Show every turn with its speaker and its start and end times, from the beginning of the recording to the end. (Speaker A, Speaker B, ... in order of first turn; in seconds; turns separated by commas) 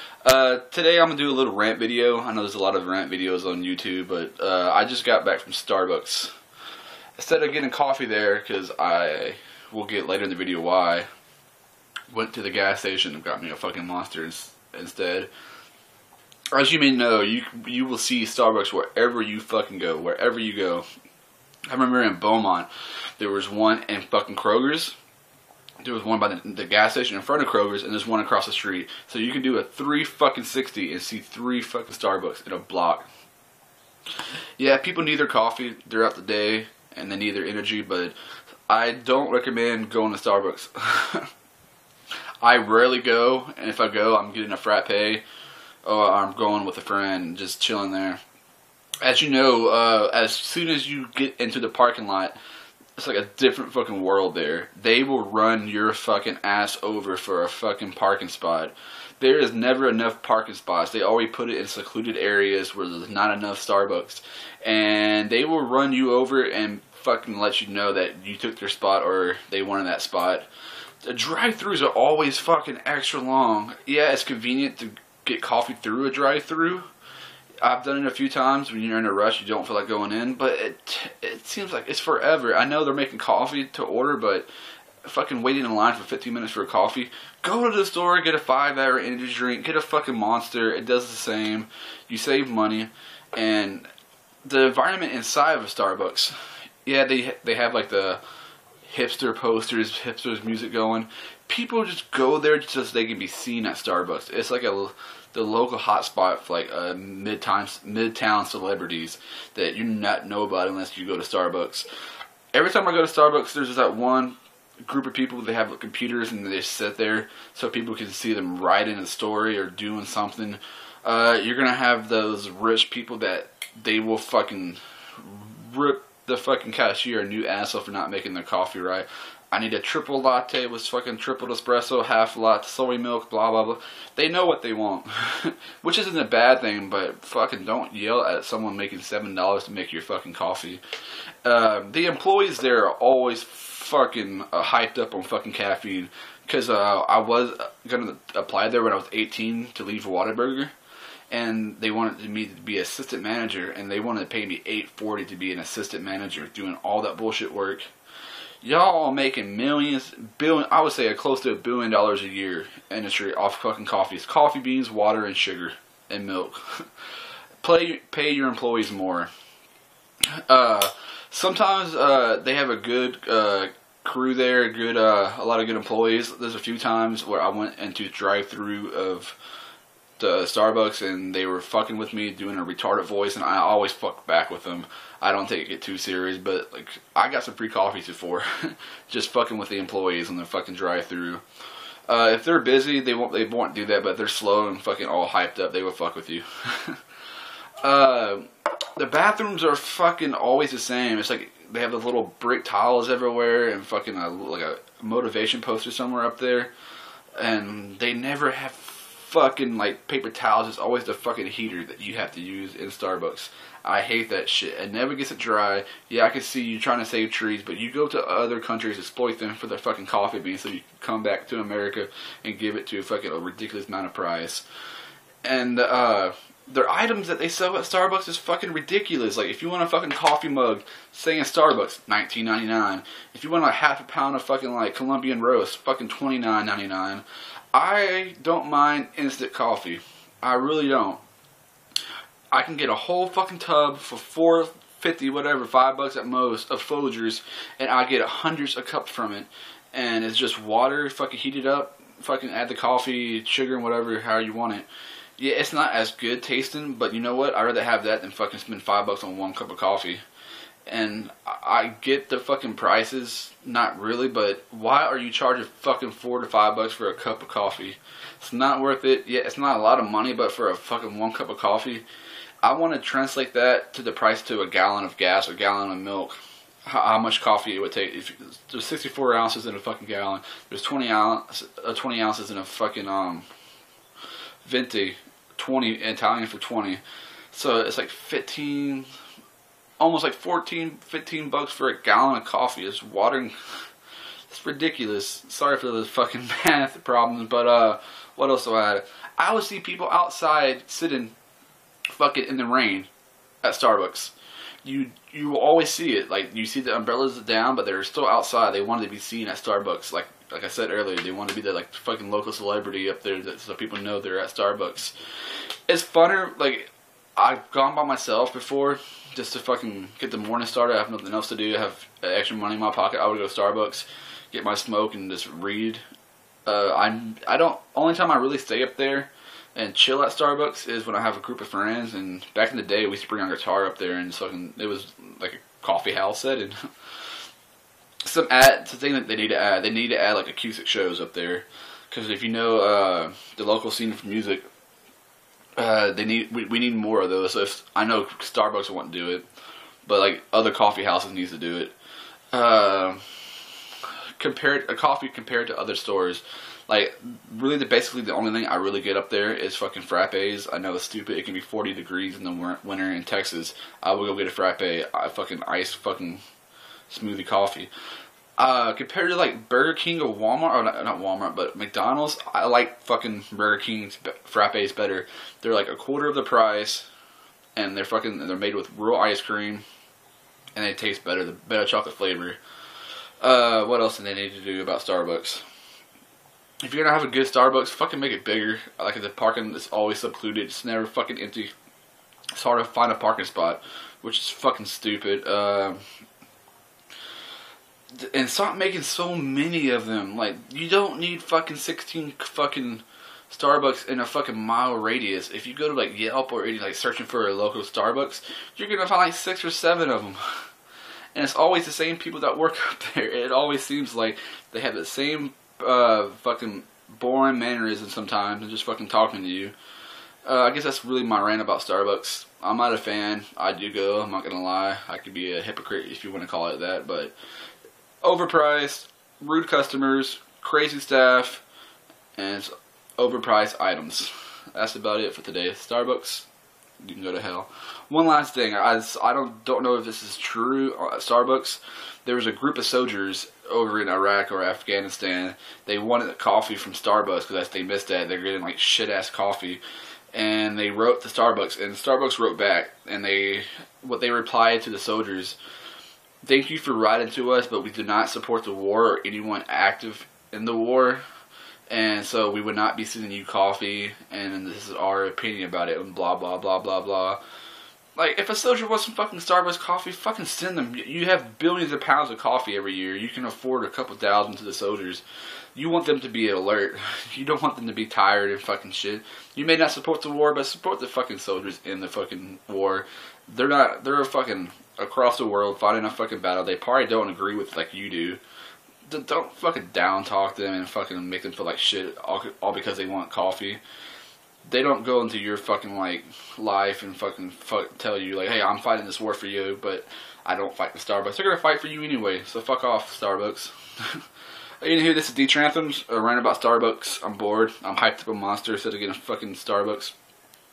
Speaker A: 0.2-6.3, Speaker A: 7.2-11.1, Speaker A: 12.1-15.3, Speaker A: 16.5-20.9, Speaker A: 21.7-24.9, Speaker A: 25.8-33.1, Speaker A: 34.6-38.1, Speaker A: 38.7-41.3, Speaker A: 42.4-45.2, Speaker A: 45.8-48.2, Speaker A: 49.0-52.3, Speaker A: 53.0-70.5, Speaker A: 71.0-76.9, Speaker A: 77.6-84.5, Speaker A: 85.0-93.9, Speaker A: 94.4-98.2, Speaker A: 98.8-111.9, Speaker A: 112.5-140.8, Speaker A: 141.4-150.7, Speaker A: 151.3-157.9, Speaker A: 158.6-166.9, Speaker A: 167.6-169.3, Speaker A: 170.3-179.4, Speaker A: 180.2-191.4, Speaker A: 192.1-197.0, Speaker A: 197.8-206.7, Speaker A: 207.4-224.6, Speaker A: 225.4-241.2, Speaker A: 242.5-254.9, Speaker A: 255.4-260.2, Speaker A: 260.9-272.0, Speaker A: 272.6-283.4, Speaker A: 284.6-289.1, Speaker A: 290.0-293.5, Speaker A: 294.5-301.3, Speaker A: 302.1-303.1, Speaker A: 303.6-304.3, Speaker A: 304.8-315.1, Speaker A: 315.9-326.0, Speaker A: 326.6-336.8, Speaker A: 338.2-344.6, Speaker A: 345.8-349.4, Speaker A: 350.1-351.9, Speaker A: 352.5-353.2, Speaker A: 354.4-366.4, Speaker A: 367.1-367.9, Speaker A: 368.6-377.1, Speaker A: 377.8-379.8, Speaker A: 380.8-382.6, Speaker A: 383.4-385.6, Speaker A: 386.8-391.7, Speaker A: 392.5-396.0, Speaker A: 398.2-410.4, Speaker A: 411.3-419.7, Speaker A: 420.4-427.3, Speaker A: 428.2-431.6, Speaker A: 432.4-436.5, Speaker A: 437.0-449.8, Speaker A: 450.3-455.6, Speaker A: 456.4-461.2, Speaker A: 461.9-467.4, Speaker A: 468.1-475.2, Speaker A: 475.7-488.4, Speaker A: 489.1-493.8, Speaker A: 494.6-504.2, Speaker A: 504.8-510.1